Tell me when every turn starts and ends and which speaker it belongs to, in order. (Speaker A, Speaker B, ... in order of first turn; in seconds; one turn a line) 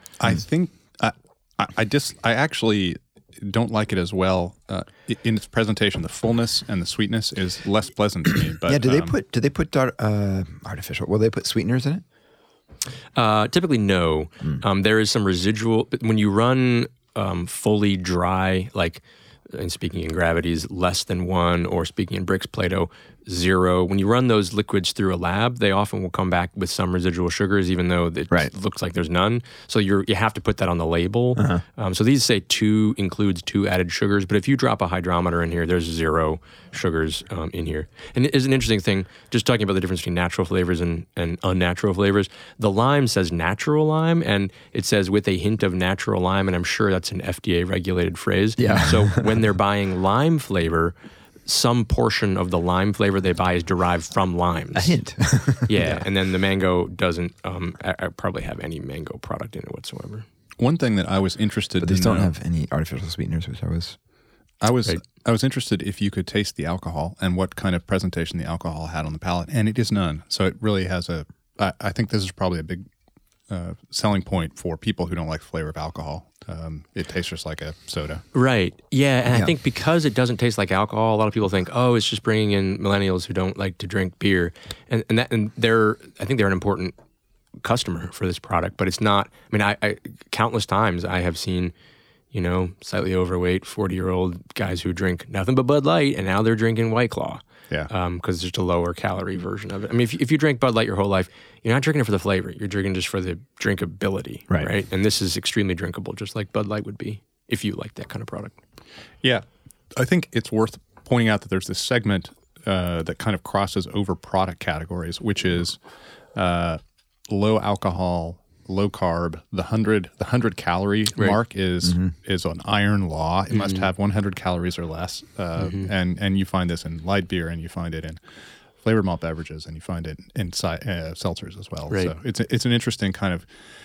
Speaker A: 0.2-9.1
Speaker B: 8.7-12.0
Speaker C: 13.2-51.0
Speaker B: 31.4-31.6
Speaker B: 48.6-49.3
Speaker C: 51.5-55.0
Speaker B: 54.7-56.0
Speaker C: 55.7-60.3
Speaker A: 60.6-62.3
Speaker B: 61.8-64.0
Speaker A: 64.6-72.9
Speaker A: 73.5-78.2
Speaker C: 78.3-87.0
Speaker C: 87.6-91.7
Speaker C: 92.3-108.6
Speaker A: 110.0-115.8
Speaker A: 116.3-128.2
Speaker C: 123.5-123.9
Speaker C: 125.6-125.9
Speaker A: 128.8-133.5